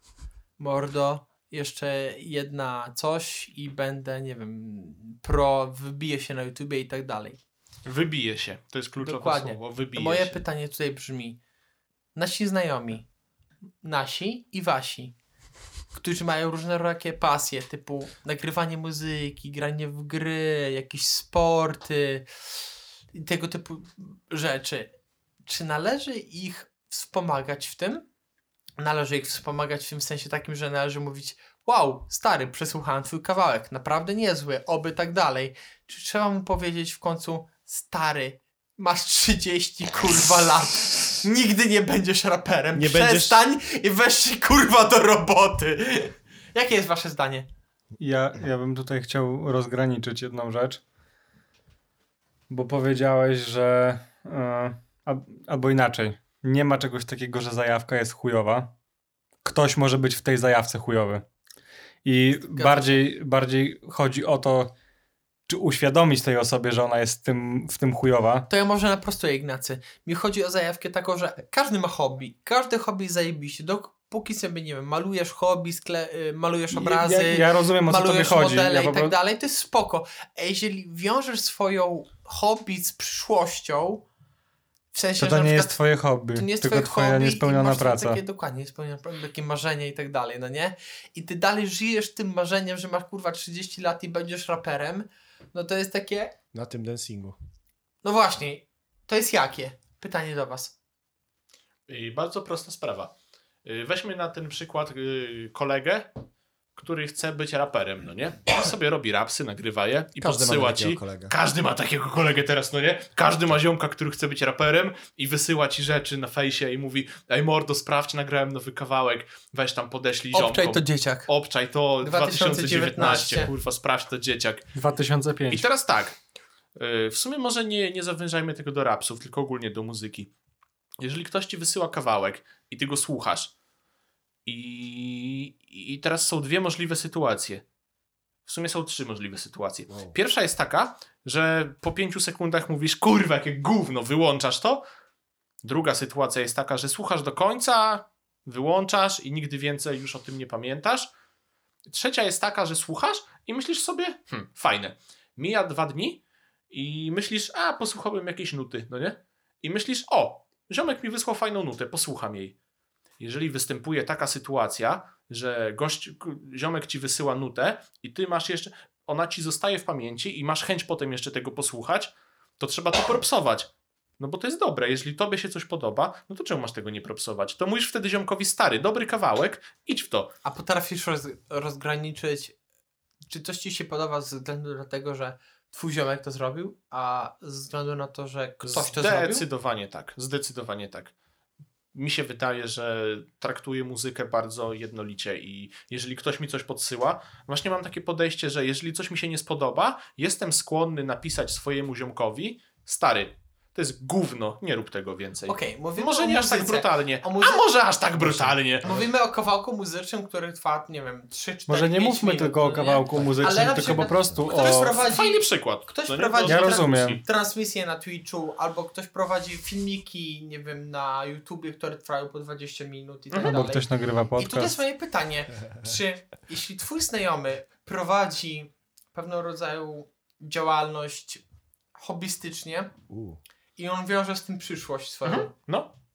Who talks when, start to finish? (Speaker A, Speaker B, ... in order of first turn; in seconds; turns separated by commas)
Speaker A: 0.6-7.4, Speaker B: 7.8-10.4, Speaker A: 9.0-11.4, Speaker A: 12.1-13.1, Speaker A: 13.8-15.1, Speaker A: 15.9-22.2, Speaker A: 23.1-24.9, Speaker A: 25.4-28.0, Speaker A: 28.8-47.5, Speaker C: 42.7-43.4, Speaker D: 48.0-50.8, Speaker D: 52.5-58.7, Speaker D: 59.4-61.2, Speaker D: 62.0-64.7, Speaker A: 62.5-63.1, Speaker D: 65.5-68.5, Speaker A: 68.5-84.0, Speaker D: 76.7-79.1, Speaker A: 84.9-85.8, Speaker D: 85.2-88.2, Speaker A: 86.3-96.3, Speaker C: 96.5-97.3, Speaker A: 98.0-100.7, Speaker B: 101.9-103.1, Speaker B: 103.6-106.1, Speaker B: 106.8-124.7, Speaker C: 110.2-111.3, Speaker A: 120.3-121.3, Speaker A: 122.0-123.5, Speaker D: 124.8-125.7, Speaker B: 125.5-126.2, Speaker B: 126.7-130.3, Speaker B: 131.0-133.5, Speaker B: 134.4-137.6, Speaker B: 138.4-144.8, Speaker B: 145.6-151.1, Speaker B: 151.9-162.5, Speaker B: 163.2-180.3, Speaker A: 180.4-182.5, Speaker A: 183.3-189.4, Speaker B: 188.6-191.1, Speaker B: 191.9-208.9, Speaker A: 205.5-207.6, Speaker C: 208.2-209.1, Speaker A: 208.8-231.4, Speaker D: 211.7-215.0, Speaker B: 215.1-217.2, Speaker D: 216.4-217.2, Speaker B: 223.3-223.6, Speaker D: 223.4-224.8, Speaker A: 231.9-232.9, Speaker C: 233.1-233.4, Speaker A: 233.8-235.5, Speaker B: 235.2-235.9